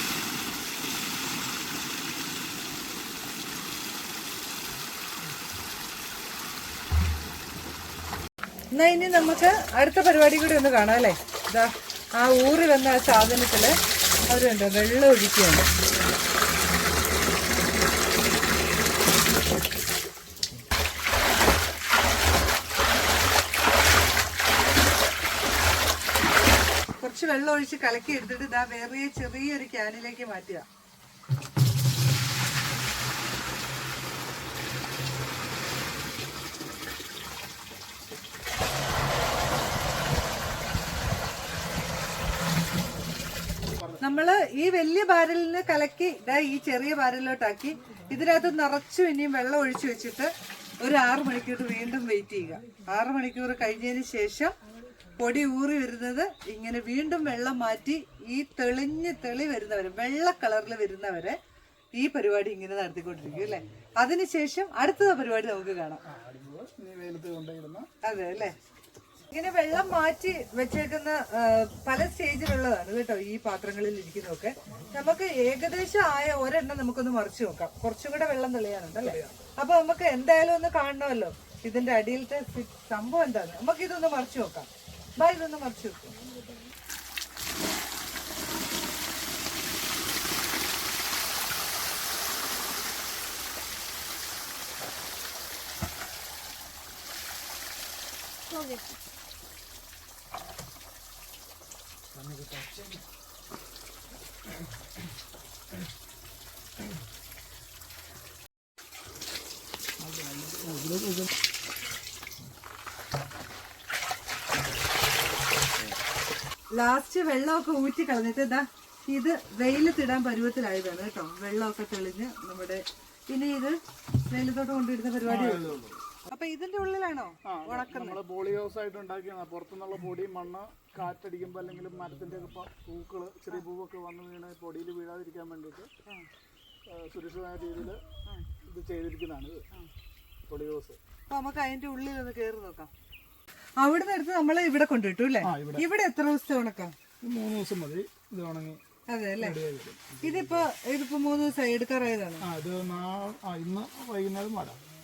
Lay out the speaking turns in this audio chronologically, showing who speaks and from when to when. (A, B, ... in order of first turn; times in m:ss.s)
0:08.7-0:13.7 A
0:14.3-0:15.7 A
0:27.0-0:30.6 A
0:43.6-0:44.0 B
0:44.0-0:54.5 A
0:55.2-1:01.4 A
1:02.0-1:06.0 A
1:06.0-1:07.9 B
1:08.0-1:08.6 A
1:09.3-1:26.2 A
1:19.0-1:19.5 B
1:42.1-1:43.0 B
1:50.0-1:51.3 B
1:56.7-2:03.8 A
2:04.3-2:05.7 A
2:05.2-2:06.0 B
2:06.3-2:08.2 A
2:07.4-2:15.9 B
2:16.9-2:18.0 B
2:18.6-2:19.6 B
2:20.5-2:21.0 B
2:21.3-2:22.9 A
2:23.8-2:26.9 A
2:25.4-2:25.8 B
2:27.2-2:28.8 B
2:29.1-2:29.6 A
2:29.4-2:30.4 B
2:30.2-2:32.4 A
2:32.4-2:34.8 B